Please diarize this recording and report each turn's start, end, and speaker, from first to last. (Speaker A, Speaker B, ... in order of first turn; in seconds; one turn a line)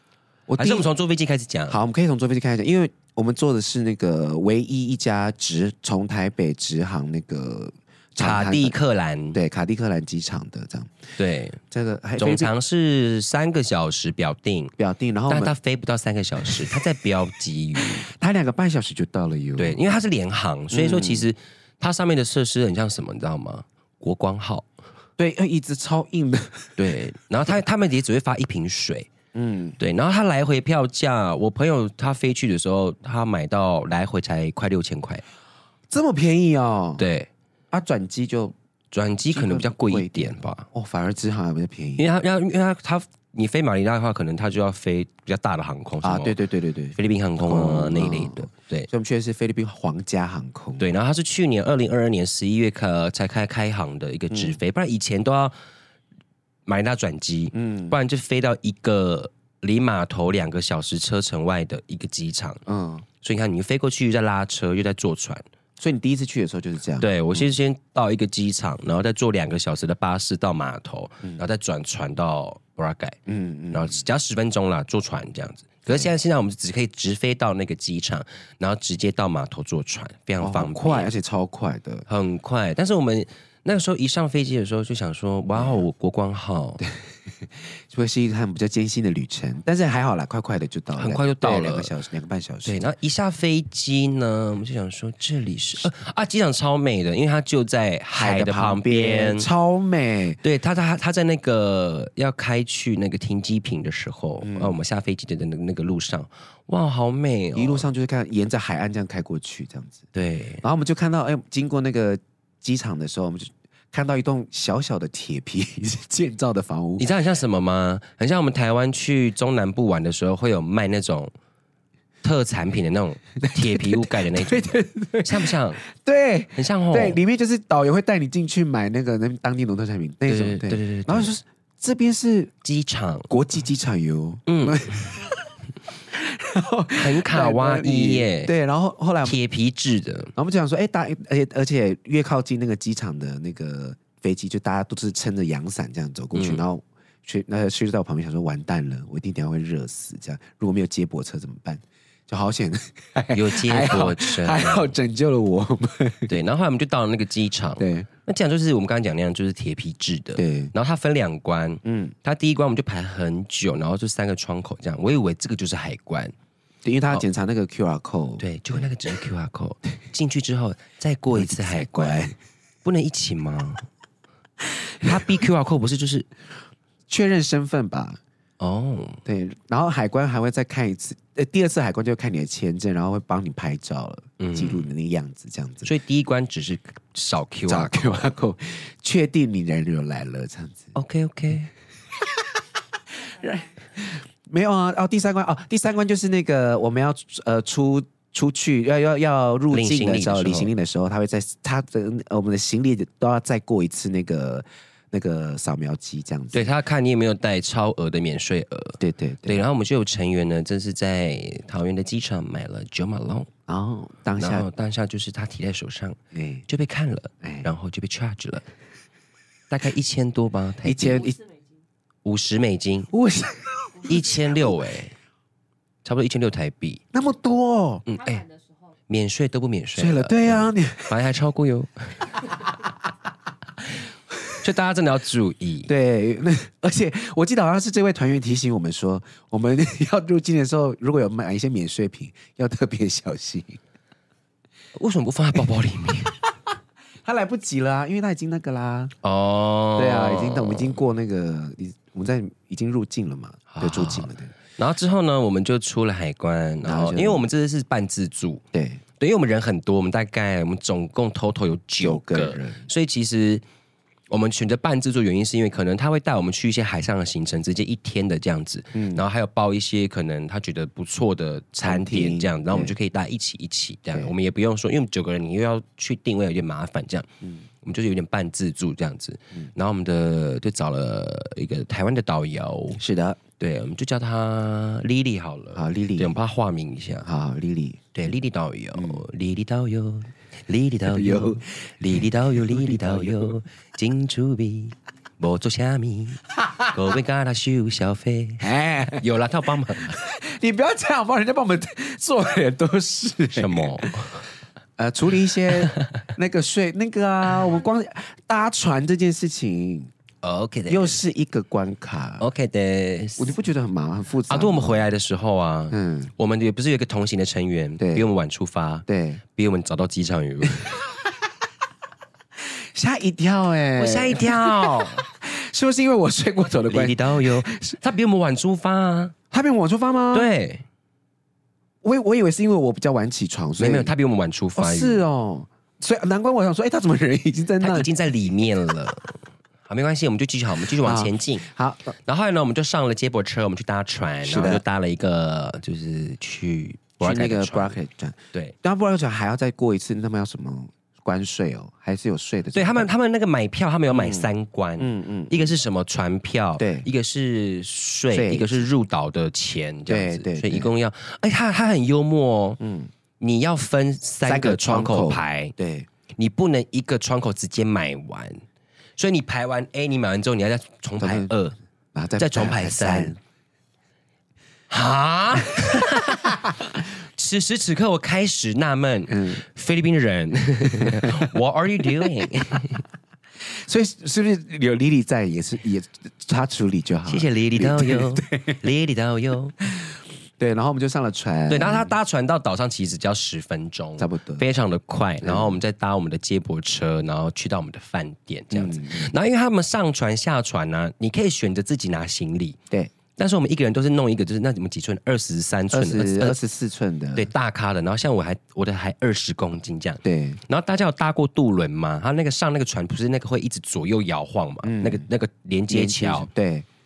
Speaker A: 0.5-0.9
Speaker B: 0.6-1.8
Speaker A: 1.7-8.8
Speaker B: 8.2-9.4
Speaker A: 9.3-11.0
Speaker B: 11.2-11.6
Speaker A: 11.7-12.5
Speaker B: 12.2-14.7
Speaker A: 14.8-15.5
Speaker B: 15.3-18.1
Speaker A: 17.8-19.8
Speaker B: 19.6-24.7
Speaker A: 20.7-21.3
Speaker A: 25.2-26.8
Speaker B: 26.8-29.1
Speaker A: 29.3-29.8
Speaker B: 29.8-35.2
Speaker A: 35.9-37.0
Speaker B: 37.0-37.3
Speaker A: 37.7-38.5
Speaker B: 38.9-40.7
Speaker A: 39.3-42.0
Speaker B: 42.0-46.4
Speaker A: 46.0-50.9
Speaker B: 46.9-48.9
Speaker B: 50.8-55.5
Speaker A: 54.3-54.6
Speaker B: 56.6-62.6
Speaker A: 57.5-58.0
Speaker A: 62.6-63.0
Speaker B: 63.2-65.4
Speaker A: 65.8-67.5
Speaker B: 67.0-73.2
Speaker A: 73.3-74.0
Speaker B: 73.7-81.1
Speaker A: 80.4-82.0
Speaker B: 82.1-86.8
Speaker A: 85.5-85.8
Speaker A: 86.8-92.9
Speaker B: 91.0-91.9
Speaker B: 92.6-99.5
Speaker A: 98.1-100.4
Speaker B: 100.4-107.8
Speaker A: 104.4-104.8
Speaker A: 107.5-110.0
Speaker B: 110.1-110.6
Speaker A: 110.6-117.1
Speaker B: 117.0-121.3
Speaker B: 122.2-125.8
Speaker A: 123.4-132.5
Speaker B: 126.5-127.2
Speaker B: 130.3-131.3
Speaker B: 132.6-133.3
Speaker A: 133.3-135.5
Speaker B: 134.5-135.1
Speaker A: 136.1-139.4
Speaker B: 136.9-138.5
Speaker B: 139.2-140.3
Speaker A: 140.3-156.3
Speaker B: 146.3-146.6
Speaker B: 153.3-154.9
Speaker B: 156.3-166.3
Speaker A: 157.8-158.1
Speaker A: 160.3-160.7
Speaker A: 161.8-162.1
Speaker A: 166.8-168.9
Speaker B: 168.4-173.9
Speaker A: 171.3-172.3
Speaker B: 175.0-176.3
Speaker A: 177.1-178.2
Speaker B: 178.6-179.2
Speaker A: 179.2-185.9
Speaker B: 184.4-184.8
Speaker B: 185.8-188.3
Speaker A: 187.7-190.9
Speaker B: 190.9-191.7
Speaker A: 192.1-206.7
Speaker B: 199.7-200.7
Speaker B: 206.5-213.5
Speaker A: 209.0-209.6
Speaker A: 213.7-214.7
Speaker B: 214.4-218.7
Speaker A: 216.3-216.6
Speaker A: 217.4-217.7
Speaker B: 219.7-221.3
Speaker A: 220.8-221.4
Speaker B: 222.2-223.1
Speaker A: 223.1-224.9
Speaker B: 224.0-225.1
Speaker B: 226.0-227.0
Speaker A: 227.1-228.1
Speaker B: 228.1-228.4
Speaker B: 229.1-232.5
Speaker A: 229.9-231.2
Speaker B: 234.6-235.9
Speaker A: 235.9-243.8
Speaker B: 244.9-246.4
Speaker A: 247.2-249.1
Speaker B: 249.2-251.0
Speaker A: 249.9-254.5
Speaker B: 253.7-258.6
Speaker A: 256.8-257.5
Speaker A: 258.7-259.0
Speaker B: 259.2-263.6
Speaker A: 262.0-262.9
Speaker B: 264.3-277.3
Speaker A: 268.9-269.2
Speaker A: 271.8-272.9
Speaker B: 277.8-283.0
Speaker A: 283.0-283.4
Speaker B: 283.6-287.2
Speaker A: 285.7-286.4
Speaker A: 287.2-288.1
Speaker B: 288.1-300.1
Speaker A: 288.9-289.2
Speaker A: 291.1-293.6
Speaker A: 296.6-297.0
Speaker A: 298.6-299.2
Speaker A: 300.1-304.1
Speaker B: 303.5-304.5
Speaker A: 305.0-310.1
Speaker B: 305.7-306.3
Speaker B: 310.4-311.2
Speaker A: 310.9-312.4
Speaker B: 312.4-313.5
Speaker A: 313.4-315.0
Speaker B: 314.5-321.0
Speaker A: 315.9-316.3
Speaker A: 318.0-318.3
Speaker A: 319.1-319.4
Speaker A: 322.6-328.0
Speaker B: 324.0-325.2
Speaker B: 326.9-329.3
Speaker A: 329.5-330.5
Speaker B: 330.3-330.8
Speaker A: 332.0-334.1
Speaker B: 333.8-335.2
Speaker A: 334.8-338.1
Speaker B: 337.8-341.6
Speaker A: 341.0-342.1
Speaker B: 342.2-348.0
Speaker A: 344.4-344.8
Speaker A: 347.2-353.1
Speaker B: 352.7-362.8
Speaker A: 354.1-355.7
Speaker A: 356.8-357.1
Speaker A: 358.3-358.9
Speaker A: 360.1-360.9
Speaker A: 362.8-363.1
Speaker B: 363.4-365.7
Speaker A: 364.4-366.1
Speaker B: 366.4-368.6
Speaker B: 369.2-371.8
Speaker A: 371.2-371.5
Speaker A: 372.1-373.4
Speaker B: 372.4-373.4
Speaker B: 374.9-376.7
Speaker B: 377.3-383.0
Speaker A: 379.3-379.6
Speaker A: 380.9-381.5
Speaker A: 382.2-382.5
Speaker A: 383.6-388.8
Speaker B: 387.3-389.8
Speaker A: 389.8-392.1
Speaker B: 391.7-402.8
Speaker A: 394.2-394.6
Speaker A: 395.4-395.8
Speaker A: 398.7-399.3
Speaker B: 403.3-406.6
Speaker A: 405.9-407.5
Speaker B: 407.3-416.5
Speaker A: 410.2-410.6
Speaker A: 414.8-415.3
Speaker A: 415.9-416.9